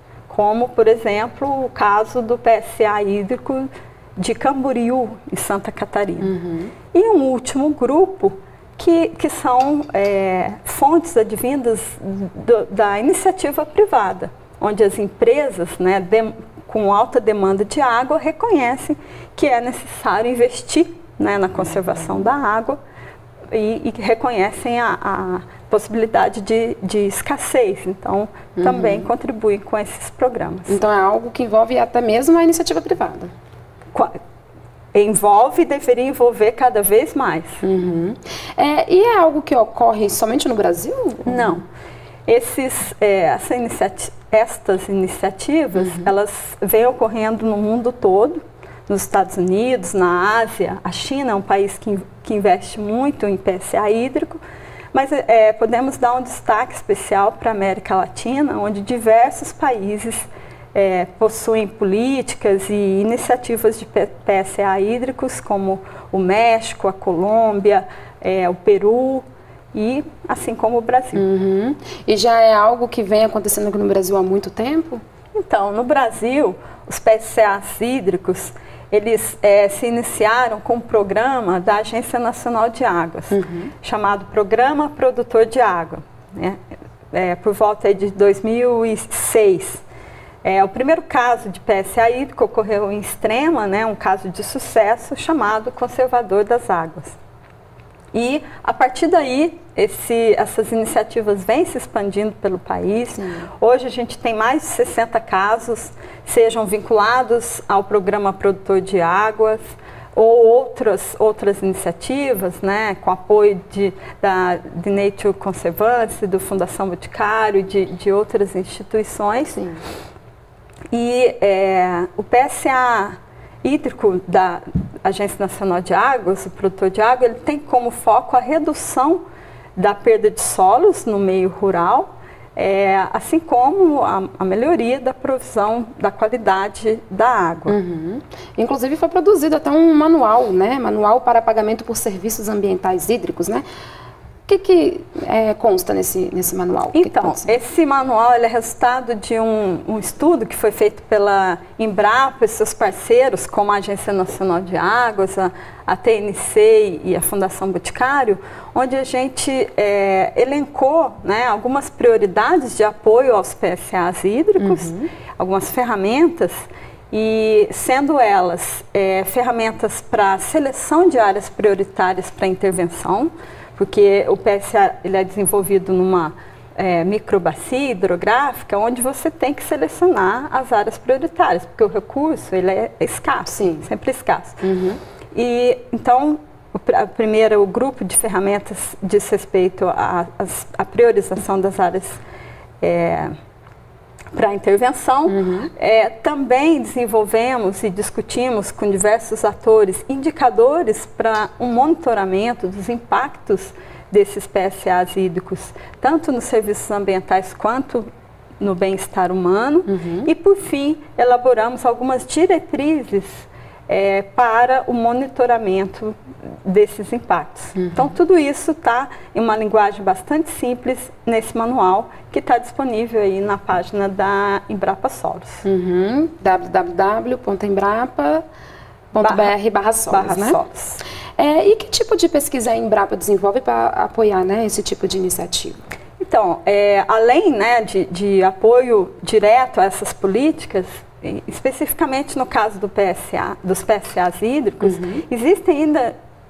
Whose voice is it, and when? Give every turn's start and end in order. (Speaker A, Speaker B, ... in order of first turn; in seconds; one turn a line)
Speaker A: 0.3-6.3
Speaker B: 6.2-6.7
Speaker A: 6.9-22.8
Speaker A: 23.5-30.8
Speaker B: 28.6-29.1
Speaker B: 30.7-33.3
Speaker A: 34.9-37.6
Speaker B: 37.6-41.6
Speaker A: 41.2-41.6
Speaker A: 42.3-54.4
Speaker B: 45.8-46.1
Speaker A: 54.9-71.2
Speaker B: 71.1-75.0
Speaker A: 75.4-86.6
Speaker B: 83.3-83.7
Speaker A: 87.1-89.8
Speaker A: 90.4-97.2
Speaker A: 98.1-119.7
Speaker B: 103.2-103.5
Speaker A: 120.9-129.2
Speaker A: 129.8-137.7
Speaker B: 137.7-143.6
Speaker B: 144.5-147.5
Speaker A: 146.9-184.6
Speaker B: 164.6-165.1
Speaker B: 183.5-183.8
Speaker B: 184.6-185.0
Speaker A: 185.3-192.2
Speaker A: 192.8-193.3
Speaker A: 194.3-208.0
Speaker B: 195.3-195.7
Speaker A: 208.6-225.6
Speaker B: 209.9-210.3
Speaker B: 217.8-218.1
Speaker B: 225.6-228.4
Speaker B: 229.1-230.6
Speaker A: 229.2-229.5
Speaker A: 230.1-231.0
Speaker B: 231.4-235.8
Speaker A: 236.2-246.1
Speaker B: 244.8-245.2